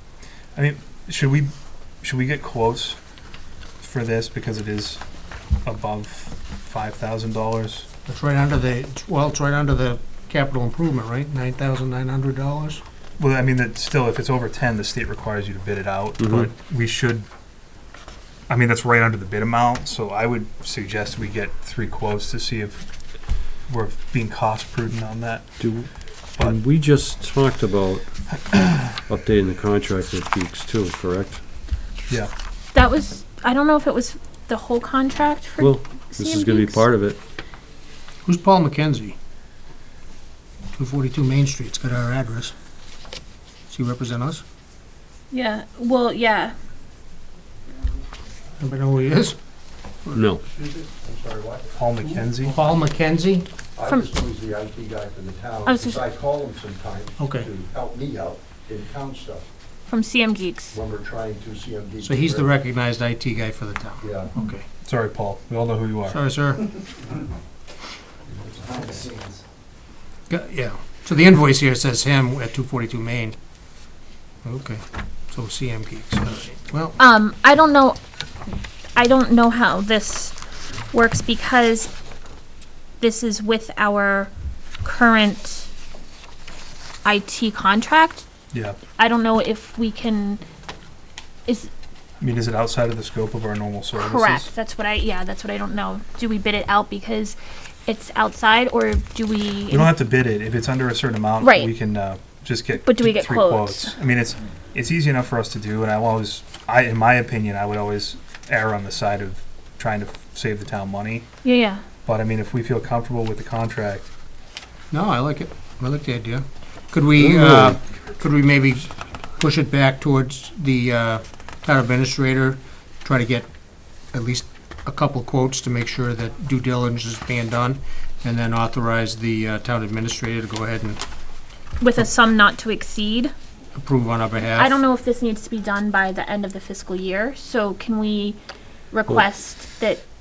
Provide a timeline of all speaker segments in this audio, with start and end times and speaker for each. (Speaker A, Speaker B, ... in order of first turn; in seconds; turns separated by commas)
Speaker A: 0.6-3.0, Speaker A: 3.8-5.0, Speaker A: 5.7-7.9, Speaker B: 8.1-12.8, Speaker A: 13.2-17.3, Speaker C: 16.2-16.5, Speaker A: 18.5-22.9, Speaker A: 23.7-25.6, Speaker C: 25.6-28.1, Speaker A: 28.5-28.9, Speaker C: 29.1-31.4, Speaker D: 32.7-36.9, Speaker C: 35.6-37.2, Speaker B: 38.2-39.2, Speaker B: 40.8-42.5, Speaker B: 43.7-44.4, Speaker D: 45.3-46.5, Speaker B: 48.6-49.4, Speaker C: 50.1-50.4, Speaker E: 50.5-51.8, Speaker A: 51.8-52.6, Speaker B: 52.1-53.5, Speaker E: 53.8-59.5, Speaker D: 55.7-56.0, Speaker B: 57.2-57.5, Speaker D: 59.9-60.8, Speaker E: 60.7-62.5, Speaker B: 62.0-64.7, Speaker E: 64.0-64.3, Speaker A: 64.8-66.2, Speaker B: 66.1-66.7, Speaker E: 68.7-69.3, Speaker B: 70.3-73.4, Speaker B: 74.4-77.0, Speaker D: 77.0-78.0, Speaker D: 79.0-80.4, Speaker D: 80.9-81.9, Speaker D: 83.0-84.3, Speaker D: 84.8-85.7, Speaker D: 87.0-88.2, Speaker A: 88.5-88.8, Speaker D: 89.0-90.4, Speaker A: 92.2-94.5, Speaker D: 94.0-99.9, Speaker A: 99.7-111.3, Speaker D: 101.4-101.7, Speaker D: 102.8-104.0, Speaker D: 111.4-111.8, Speaker A: 112.1-114.1, Speaker B: 114.9-123.5, Speaker C: 117.2-117.8, Speaker B: 124.1-131.0, Speaker D: 131.8-133.3, Speaker B: 133.8-134.8, Speaker D: 134.5-138.4, Speaker D: 138.9-140.0